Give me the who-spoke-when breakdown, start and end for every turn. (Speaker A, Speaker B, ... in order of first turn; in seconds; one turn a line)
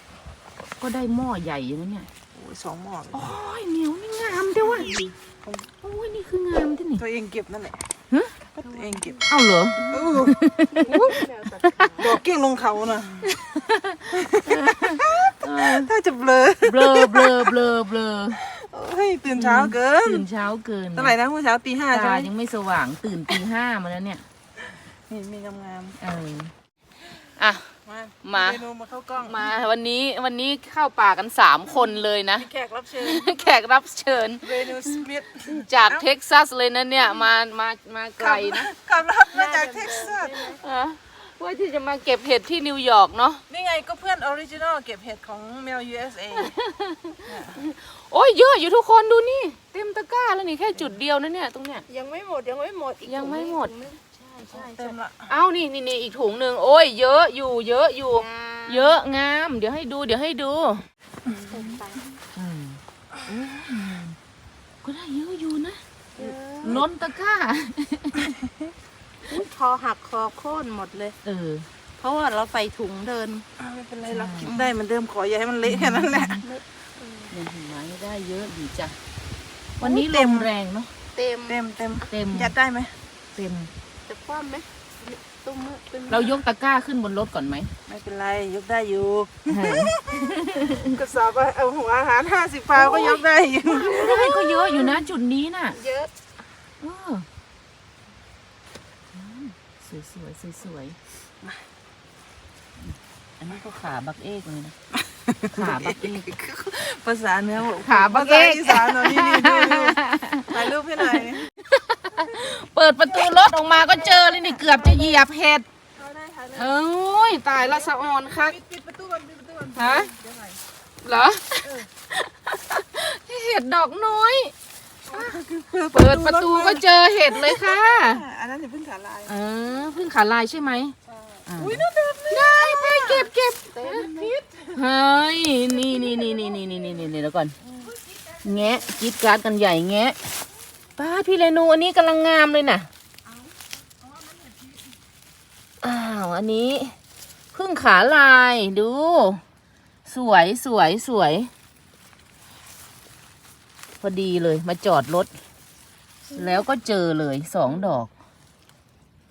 Speaker A: 0.8-2.1
Speaker B: 2.3-3.3
Speaker A: 3.1-5.0
Speaker B: 4.9-5.7
Speaker A: 5.8-7.0
Speaker B: 7.0-7.8
Speaker C: 8.6-9.3
Speaker B: 8.6-9.2
Speaker A: 9.3-11.9
Speaker B: 9.9-11.2
Speaker C: 10.6-12.2
Speaker B: 12.0-13.3
Speaker A: 13.2-15.9
Speaker B: 14.1-17.6
Speaker A: 16.6-18.4
Speaker B: 18.4-20.2
Speaker A: 19.3-21.1
Speaker B: 20.9-22.3
Speaker A: 21.9-24.2
Speaker B: 25.1-26.0
Speaker A: 26.0-26.5
Speaker A: 27.2-27.7
Speaker B: 27.9-29.5
Speaker A: 28.2-28.6
Speaker A: 29.2-38.7
Speaker B: 32.4-33.5
Speaker B: 34.4-36.1
Speaker B: 38.2-40.5
Speaker C: 39.3-40.6
Speaker A: 40.5-43.4
Speaker B: 43.5-46.5
Speaker A: 46.4-51.9
Speaker B: 47.3-47.6
Speaker C: 51.9-55.0
Speaker A: 53.0-53.7
Speaker B: 54.5-55.3
Speaker A: 55.3-60.8
Speaker C: 58.1-59.0
Speaker C: 61.3-62.1
Speaker B: 61.3-61.5
Speaker A: 62.4-64.2
Speaker A: 64.8-65.8
Speaker C: 66.2-66.9
Speaker A: 66.6-68.3
Speaker C: 69.3-71.2
Speaker A: 71.2-71.7
Speaker C: 72.0-73.5
Speaker B: 73.6-76.4
Speaker A: 74.1-74.6
Speaker C: 74.5-74.7
Speaker A: 75.7-76.5
Speaker C: 76.4-77.3
Speaker A: 77.3-79.0
Speaker A: 79.8-80.9
Speaker B: 79.8-80.5
Speaker C: 81.2-81.6
Speaker B: 81.5-83.0
Speaker A: 82.1-82.5
Speaker A: 83.3-83.7
Speaker C: 84.1-86.4
Speaker A: 86.1-87.7
Speaker B: 87.9-94.1
Speaker A: 89.5-90.9
Speaker C: 92.8-95.0
Speaker A: 93.8-95.8
Speaker C: 95.7-96.1
Speaker A: 96.8-97.3
Speaker A: 99.1-101.0
Speaker A: 102.8-104.8
Speaker B: 105.1-111.4
Speaker A: 105.5-106.3
Speaker A: 107.8-115.7
Speaker C: 113.8-115.2
Speaker B: 116.0-116.6
Speaker A: 116.5-118.6
Speaker B: 118.3-120.6
Speaker A: 119.8-120.1
Speaker A: 121.0-124.5
Speaker B: 125.1-129.3
Speaker A: 125.9-128.2
Speaker A: 129.3-137.6
Speaker B: 131.5-133.2
Speaker C: 133.0-134.3
Speaker B: 134.3-134.6
Speaker C: 136.0-136.7
Speaker C: 137.7-138.3
Speaker A: 138.4-140.3
Speaker A: 141.0-142.9
Speaker A: 145.8-147.0
Speaker A: 147.5-149.4
Speaker A: 150.1-151.5
Speaker A: 154.0-155.3
Speaker C: 156.3-156.6
Speaker A: 156.3-158.1